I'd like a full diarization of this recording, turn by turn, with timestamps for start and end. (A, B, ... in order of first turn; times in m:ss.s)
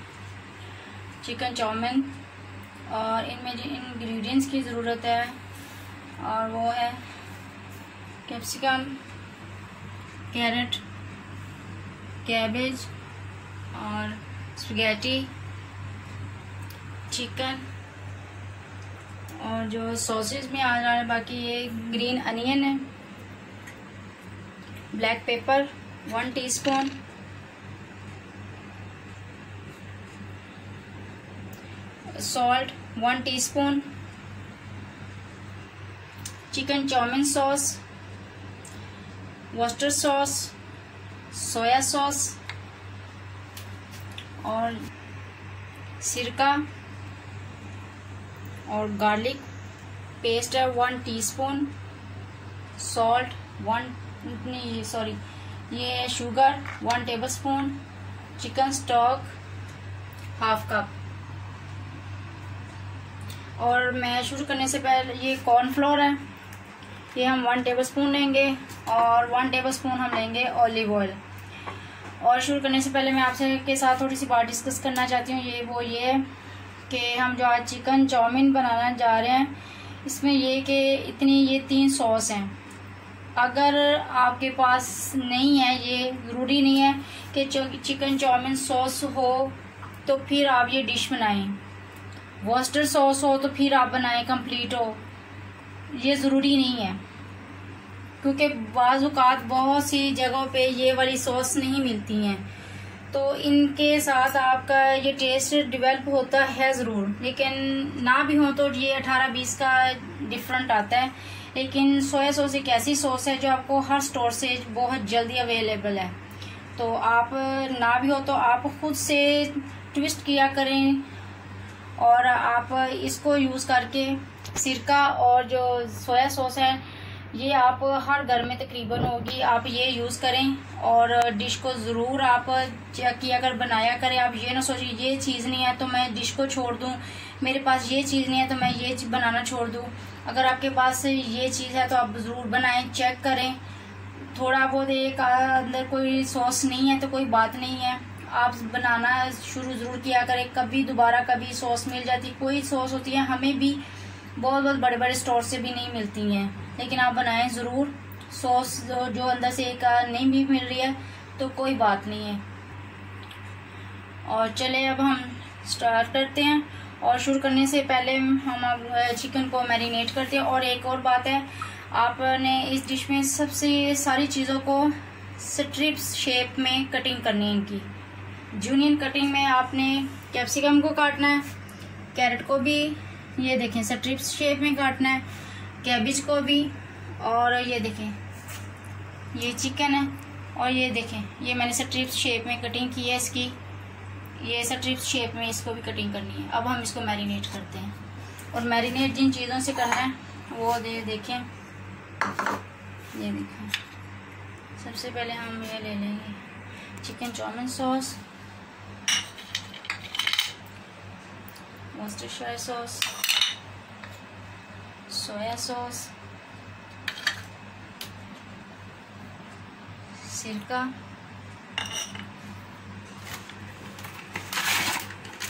0:01.2-0:02.1 A
0:02.9-0:05.4 A
0:06.2-0:07.0 A
0:08.2-0:09.0 A
0:10.3-0:10.8 A
0:12.2-0:12.9 A
0:13.7-0:15.3 A
0:17.1-0:17.6 A
0:19.4-0:22.9 A
0:24.9-0:27.0 A
0:32.1-0:33.9 A
0:36.5-0:37.8 A
0:39.5-0:40.5 A
0:41.3-0:42.4 A
0:44.4-0:44.8 A
0:46.0-0:46.6 A
0:48.6-0:49.4 A
0:50.2-0:51.7 A
0:52.8-0:57.8 A
0:58.4-0:59.3 A
1:00.4-1:00.9 A
1:03.6-1:06.2 A
1:07.1-1:11.2 A
1:12.2-1:16.3 A
1:16.9-1:22.5 A
1:23.4-1:31.6 A
1:32.4-1:35.0 A
1:35.9-1:37.0 A
1:38.2-1:42.4 A
1:43.1-1:56.2 A
1:56.8-2:01.1 A
2:02.0-2:23.6 A
2:24.2-2:33.8 A
2:34.4-2:42.4 A
2:44.2-2:57.9 A
2:58.5-3:01.4 A
3:02.1-3:05.2 A
3:05.8-3:08.2 A
3:09.3-3:13.6 A
3:14.4-3:17.9 A
3:18.5-3:21.5 A
3:23.1-3:23.7 A
3:24.8-3:26.4 A
3:27.0-3:28.2 A
3:31.9-3:33.1 A
3:35.1-3:36.1 A
3:40.1-3:40.9 A